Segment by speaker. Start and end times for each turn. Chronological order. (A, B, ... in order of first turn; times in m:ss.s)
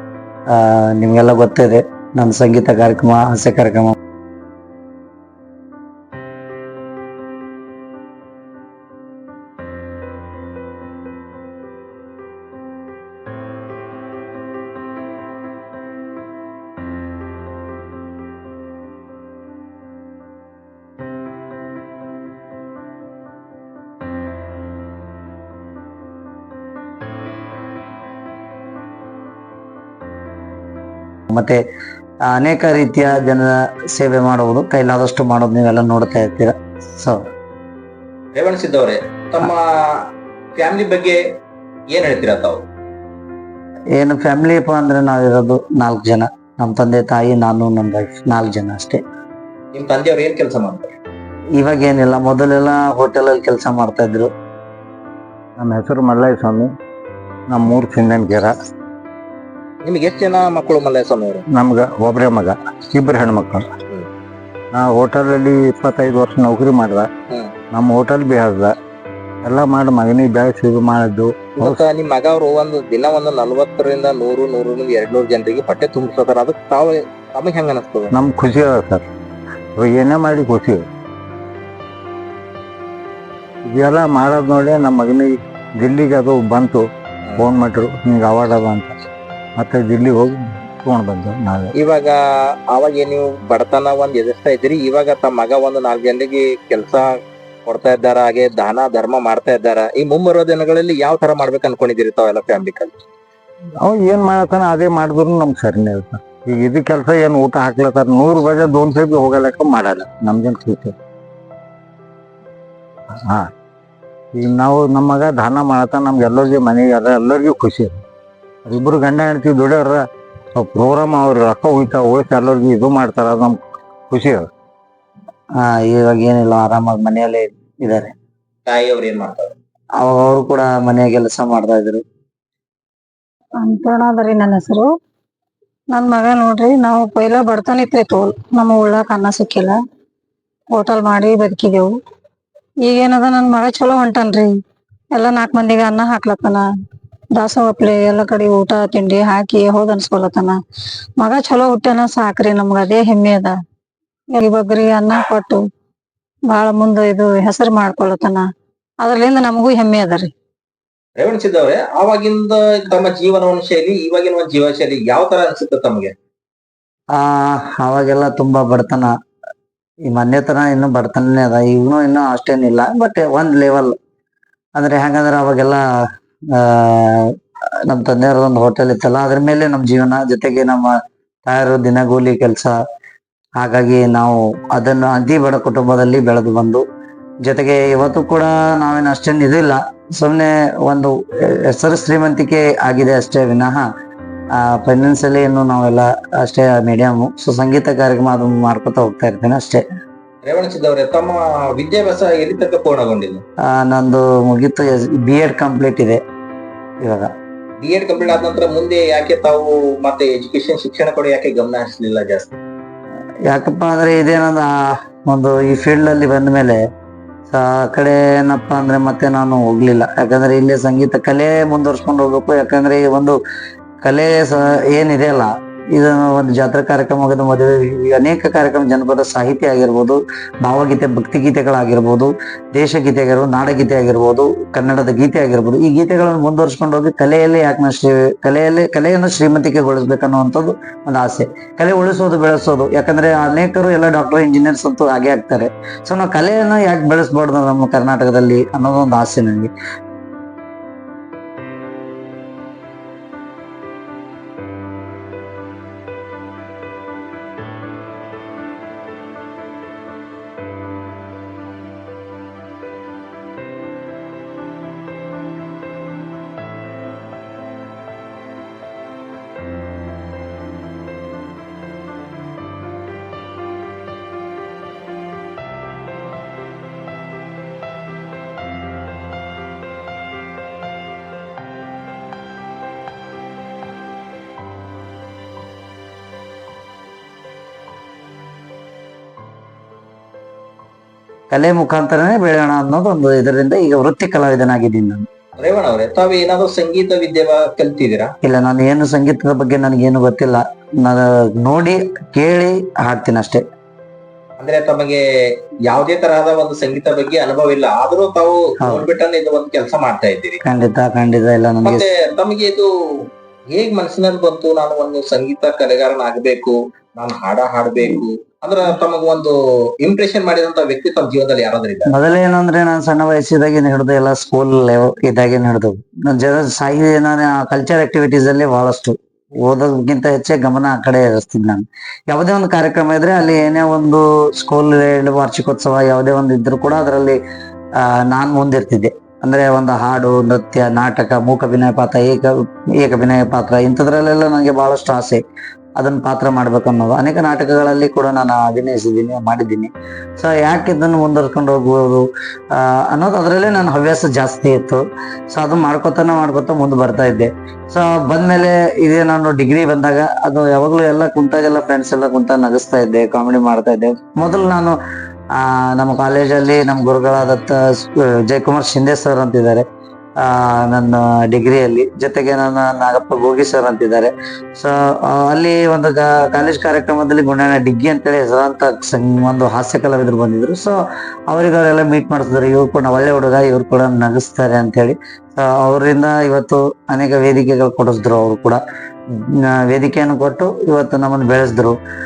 0:00.5-0:04.0 A
0:31.3-0:31.6 A
0:32.3-0:37.3 A
0:38.4-0:41.4 B
0:41.9-0:42.7 B
0:44.0-0:49.0 A
0:49.7-0:50.9 B
0:51.6-0:54.3 A
0:55.6-0:56.7 C
0:57.5-0:58.5 C
0:59.8-1:01.4 B
1:01.5-1:03.7 C
1:04.7-1:07.1 C
1:07.7-1:08.7 C
1:09.4-1:11.8 C
1:11.6-1:18.1 B
1:18.1-1:19.0 C
1:19.8-1:20.9 C
1:23.7-1:26.8 C
1:27.4-1:29.0 C
1:29.6-1:31.7 C
1:31.8-1:37.1 B
1:37.7-1:43.0 B
1:43.8-1:51.0 C
1:53.2-1:53.5 C
1:54.3-1:58.0 C
1:58.7-2:00.0 C
2:00.6-2:03.6 C
2:04.1-2:04.5 C
2:05.6-2:08.1 A
2:08.7-2:09.6 B
2:10.0-2:12.0 A
2:13.6-2:14.9 D
2:15.9-2:19.8 D
2:20.7-2:22.0 D
2:22.8-2:24.6 D
2:25.1-2:26.6 D
2:27.4-2:30.6 D
2:31.2-2:33.6 D
2:34.3-2:35.6 D
2:36.5-2:38.5 D
2:39.0-2:40.3 D
2:41.2-2:46.2 B
2:47.1-2:49.1 A
2:50.0-2:54.0 A
2:54.8-2:55.8 A
2:56.5-2:57.3 A
2:57.9-3:02.8 A
3:03.6-3:06.8 A
3:07.4-3:13.9 A
3:14.5-3:19.8 A
3:20.5-3:23.4 B
3:23.6-3:26.2 A
3:27.0-3:27.3 A
3:27.8-3:32.6 B
3:33.5-3:36.8 A
3:37.5-3:43.4 A
3:44.0-4:09.7 A
4:51.5-4:55.2 A
4:55.6-4:58.4 B
4:58.4-5:03.6 A
5:04.6-5:05.2 B
5:05.9-5:10.6 B
5:10.6-5:12.1 A
5:11.8-5:22.1 B
5:22.1-5:37.4 A
5:38.0-5:45.4 A
5:46.0-6:05.0 A
6:05.6-6:09.9 A
6:10.4-6:21.0 A
6:21.5-6:28.8 A
6:29.3-6:32.0 A